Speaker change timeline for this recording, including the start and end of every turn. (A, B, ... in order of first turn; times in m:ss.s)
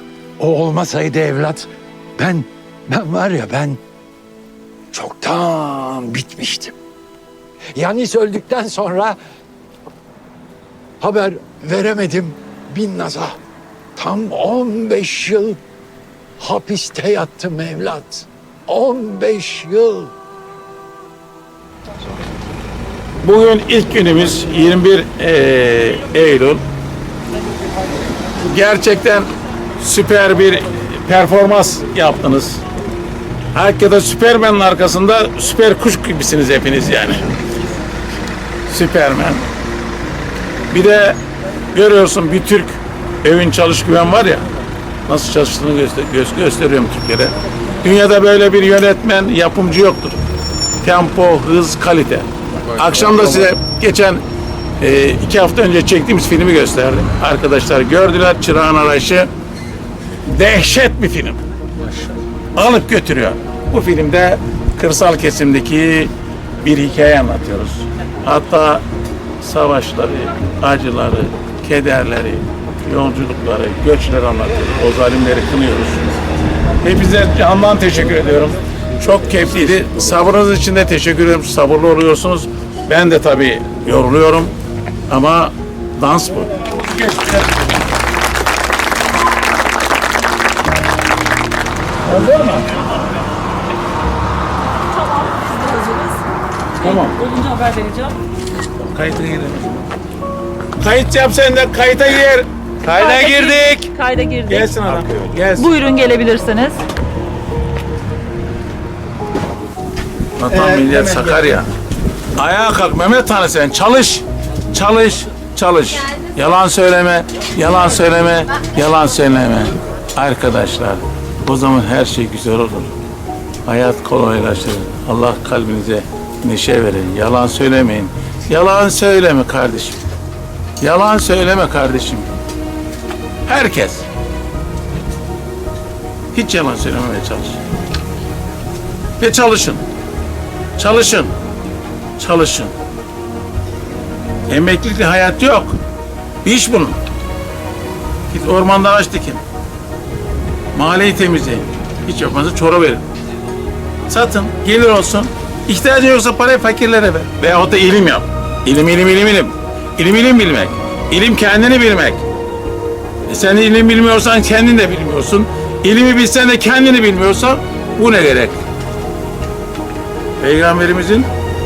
0:00.4-0:03.8 A
0:04.9-0:06.7 A
0:07.8-0:09.2 A
0:11.0-0:13.4 A
0:14.0-0:15.6 A
0:16.4-0:20.1 A
0:23.2-0:26.6 B
0:28.4-0:32.6 B
0:33.5-0:37.3 B
0:38.7-0:39.5 B
0:40.7-0:41.2 B
0:41.7-0:44.4 B
0:45.0-0:50.2 B
0:50.8-0:54.2 B
0:54.8-0:59.3 B
1:00.3-1:01.4 B
1:02.5-1:08.8 B
1:09.4-1:16.2 B
1:16.8-1:24.5 B
1:25.1-1:27.6 B
1:32.0-1:32.8 B
1:34.9-1:36.2 C
1:36.8-1:37.2 B
1:36.8-1:38.2 C
1:38.7-1:39.8 B
1:40.8-1:43.9 B
1:42.9-1:44.7 C
1:44.5-1:45.7 B
1:45.6-1:46.8 C
1:50.4-1:51.7 B
1:52.4-2:02.9 B
2:03.6-2:10.0 B
2:10.8-2:12.3 B
2:13.4-2:14.0 B
2:16.3-2:17.6 B
2:19.2-2:19.8 B
2:20.8-2:21.3 B
2:22.2-2:22.7 B
2:24.5-2:25.8 B
2:26.4-2:27.0 B
2:28.3-2:29.4 B
2:30.7-2:33.0 B
2:34.1-2:42.2 B
2:43.3-2:48.6 B
2:50.4-2:51.3 B